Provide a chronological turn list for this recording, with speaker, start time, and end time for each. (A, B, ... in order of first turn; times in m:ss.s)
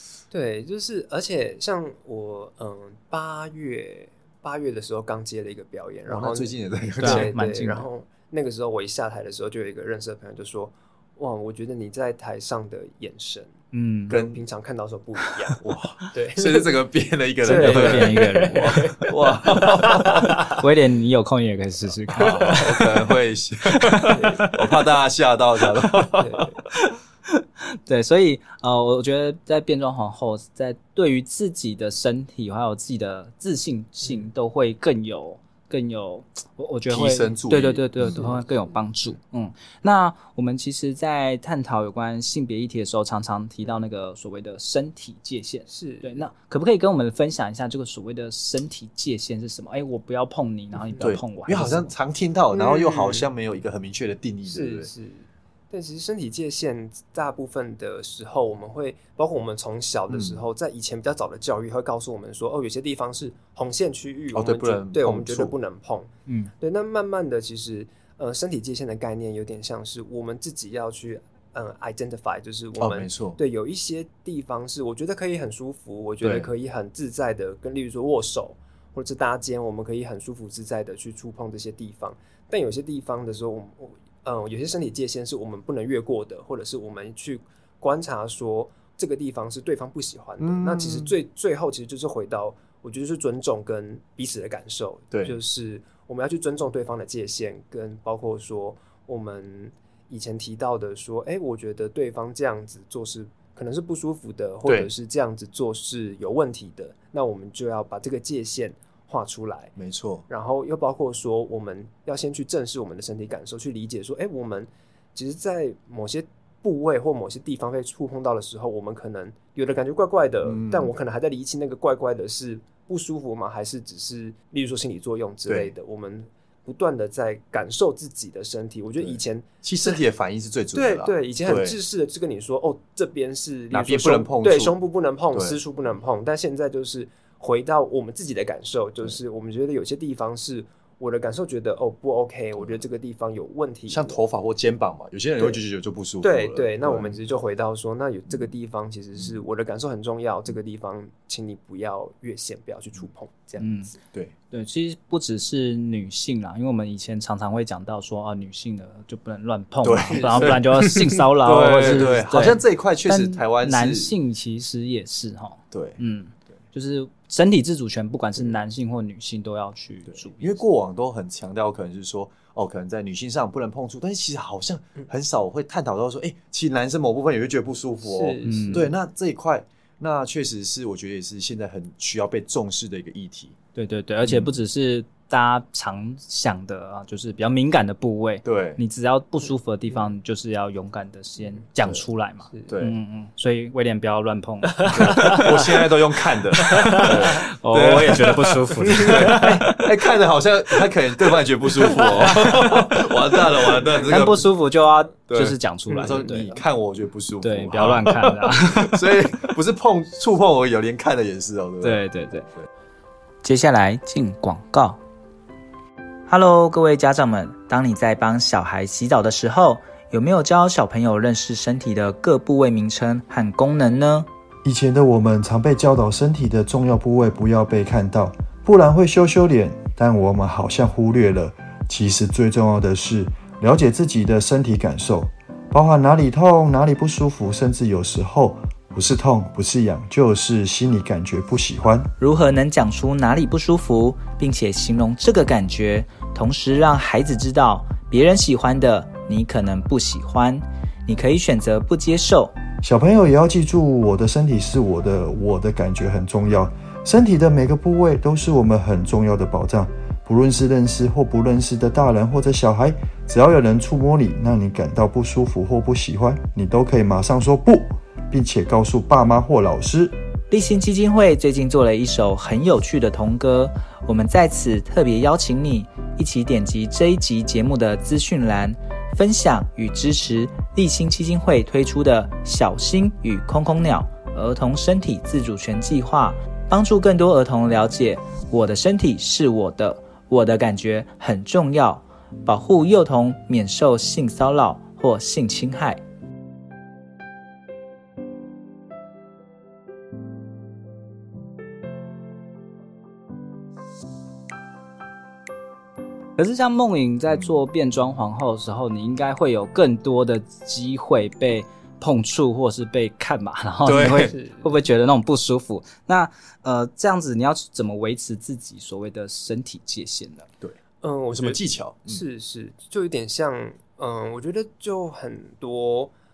0:00.3-0:13.6 A
0:06.1-0:07.3 B
0:07.0-0:07.9 C
0:13.7-0:14.1 C
0:14.1-0:16.7 A
0:14.1-0:14.4 B
0:15.6-0:20.5 B
0:17.4-0:20.6 A
0:17.4-0:18.8 C
0:20.6-0:22.6 C
0:22.2-0:22.8 A
0:22.2-0:26.4 B
0:23.8-0:24.5 C
0:24.1-0:24.5 A
0:26.2-0:26.6 A
0:26.7-0:51.9 C
0:36.9-0:38.2 B
0:45.7-0:46.3 A
0:50.8-0:51.1 A
0:51.0-0:54.9 B
0:52.5-0:53.3 A
0:54.4-1:49.7 A
1:00.1-1:00.4 B
1:04.3-1:05.5 B
1:06.3-1:06.5 C
1:12.8-1:13.4 B
1:16.2-1:16.5 B
1:30.4-1:31.1 B
1:35.1-1:35.4 B
1:44.6-1:44.9 B
1:49.8-1:50.2 B
1:50.3-2:10.0 A
2:00.4-2:00.9 B
2:05.4-2:05.7 B
2:09.0-2:11.8 B
2:10.7-2:24.2 A
2:13.7-2:14.8 B
2:15.3-2:15.6 B
2:22.6-2:22.8 B
2:23.9-2:27.2 B
2:26.2-2:34.0 A
2:29.2-2:29.4 B
2:33.6-2:33.9 C
2:34.5-2:50.6 C
2:39.8-2:44.1 B
2:45.7-2:46.0 B
2:50.1-3:03.6 B
2:58.0-2:58.9 A
2:58.4-2:58.9 C
3:03.7-3:15.5 C
3:04.2-3:04.5 B
3:08.4-3:08.8 B
3:12.6-3:13.0 B
3:14.7-3:15.5 A
3:14.9-3:24.5 B
3:16.6-3:19.8 C
3:19.2-3:19.5 A
3:22.2-3:22.8 C
3:23.9-3:26.6 C
3:25.3-3:32.0 B
3:27.4-3:29.1 C
3:31.8-3:32.5 C
3:33.4-3:35.0 C
3:36.3-3:44.3 C
3:44.6-4:02.1 D
4:02.2-4:12.5 C
4:12.8-4:30.1 D
4:30.5-4:56.0 C
5:06.4-5:20.5 C
5:13.8-5:14.3 B
5:14.3-5:14.8 A
5:21.0-5:26.1 A
5:21.4-5:22.2 B